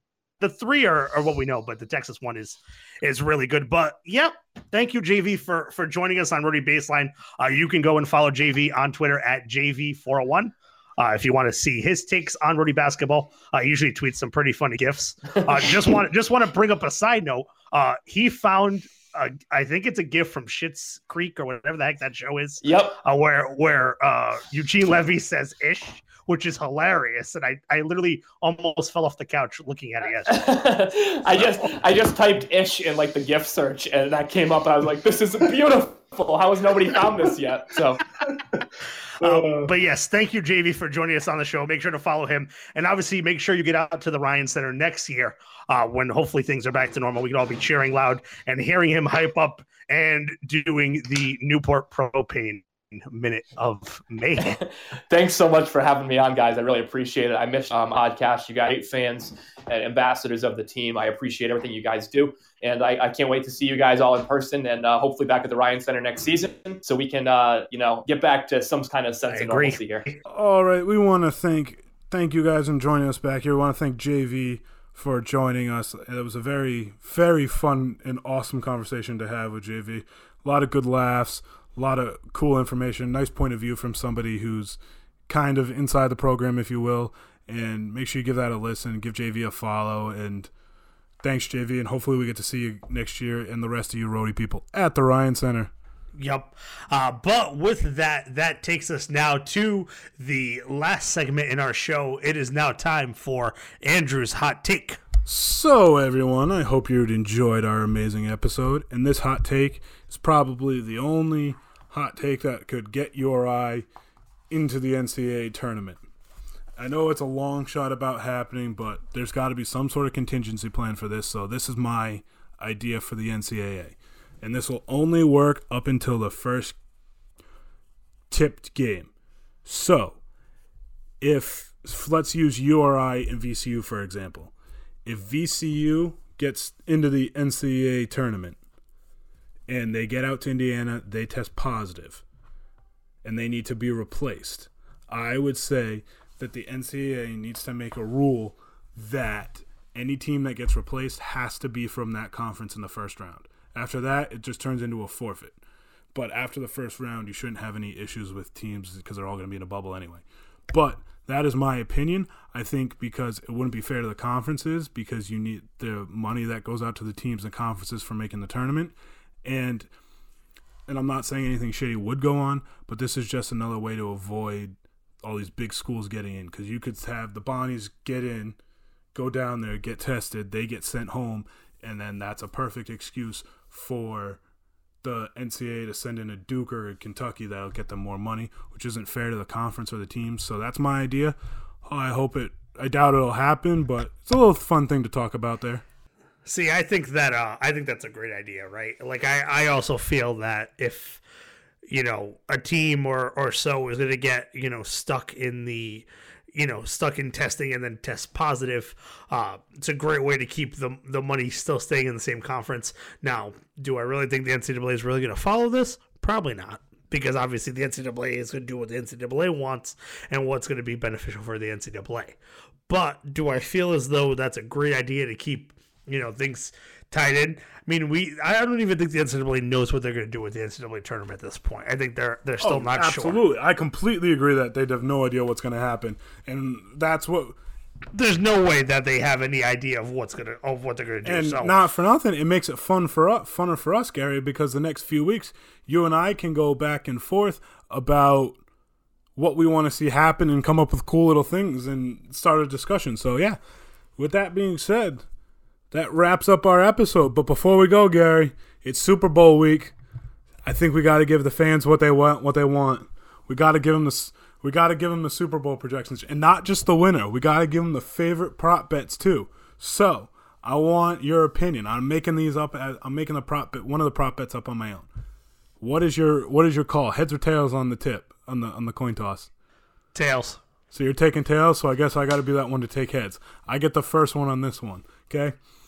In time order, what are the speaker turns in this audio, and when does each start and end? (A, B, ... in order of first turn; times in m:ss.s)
0:00.4-0:30.5 A
0:22.6-0:23.0 B
0:30.3-0:38.0 B
0:39.2-0:39.7 C
0:39.2-0:54.6 A
0:54.4-1:10.1 B
1:09.3-1:10.2 A
1:10.3-1:30.5 C
1:31.2-1:35.7 C
1:36.2-1:45.0 A
1:45.2-1:53.9 C
1:54.5-1:56.0 C
1:56.8-2:06.8 C
2:08.3-2:09.1 C
2:09.6-2:10.2 C
2:11.2-2:14.5 C
2:15.0-2:18.6 C
2:19.7-2:22.2 C
2:23.2-2:35.6 C
2:36.1-2:49.9 C
2:50.9-2:58.6 C
2:59.1-3:04.4 C
3:05.0-3:15.8 C
3:16.4-3:21.2 A
3:21.9-3:42.4 A
3:42.9-3:53.4 A
3:52.6-3:57.6 C
3:58.1-4:01.8 A
4:01.2-4:08.6 C
4:09.4-4:13.6 C
4:14.2-4:15.2 C
4:15.9-4:19.9 C
4:20.6-4:35.1 C
4:35.8-4:39.5 C
4:40.1-4:40.6 A
4:40.9-4:45.6 C